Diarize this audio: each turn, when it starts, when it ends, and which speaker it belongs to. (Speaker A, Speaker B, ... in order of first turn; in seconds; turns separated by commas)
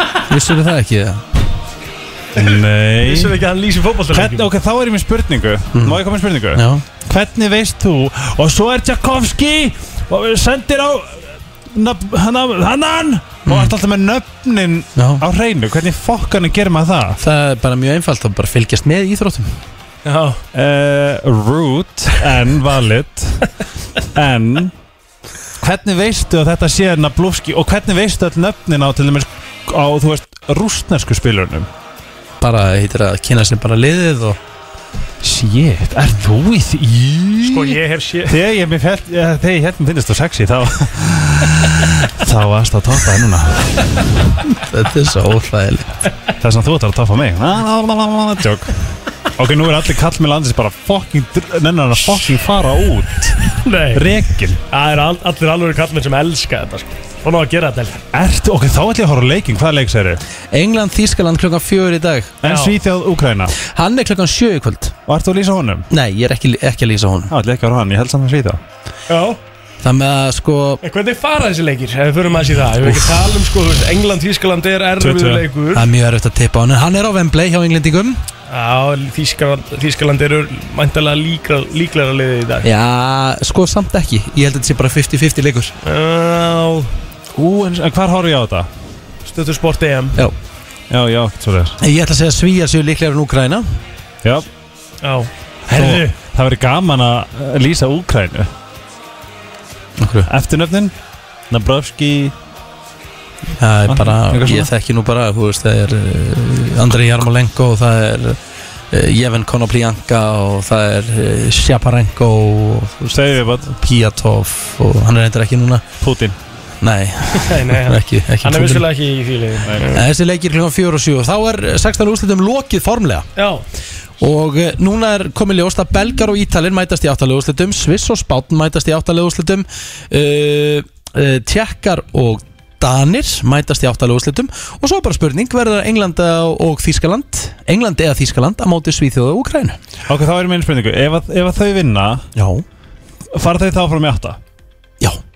Speaker A: 0.3-1.3, Speaker B: 2.3-3.4, Speaker C: 3.0-4.5, Speaker B: 4.1-17.2, Speaker A: 5.7-6.0, Speaker A: 6.5-6.8, Speaker A: 13.4-13.7, Speaker A: 14.9-15.2, Speaker A: 17.2-19.6, Speaker C: 20.1-20.4, Speaker B: 20.5-23.5, Speaker B: 24.1-24.7, Speaker B: 25.6-31.7, Speaker A: 32.4-34.4, Speaker B: 35.2-43.9, Speaker C: 37.4-38.4, Speaker A: 44.5-46.0, Speaker B: 46.4-48.8, Speaker B: 49.4-54.6, Speaker C: 53.5-58.0, Speaker B: 58.1-60.2, Speaker A: 60.5-62.4, Speaker B: 62.4-63.5, Speaker C: 62.4-62.8, Speaker A: 63.6-64.9, Speaker B: 65.1-65.9, Speaker A: 65.9-67.3, Speaker B: 67.3-68.6, Speaker C: 69.1-69.4, Speaker A: 69.8-70.8, Speaker C: 70.8-75.9, Speaker A: 72.8-73.2, Speaker B: 75.0-75.4, Speaker A: 75.7-78.2, Speaker C: 78.5-82.7, Speaker A: 82.6-85.7, Speaker C: 85.8-86.9, Speaker B: 87.3-88.7, Speaker C: 89.3-90.2, Speaker B: 90.9-91.8, Speaker A: 91.8-93.6, Speaker C: 95.0-96.1, Speaker B: 95.7-98.5, Speaker A: 100.0-100.3, Speaker B: 100.3-100.9, Speaker B: 101.5-102.3, Speaker A: 103.6-108.4, Speaker B: 103.9-104.7, Speaker A: 108.9-115.8, Speaker B: 113.1-113.7, Speaker B: 116.0-116.3, Speaker A: 116.8-118.9, Speaker C: 117.4-120.0, Speaker A: 119.9-123.3, Speaker C: 123.4-123.6, Speaker A: 124.2-139.8, Speaker B: 140.1-142.3, Speaker A: 142.3-142.6, Speaker B: 143.3-144.4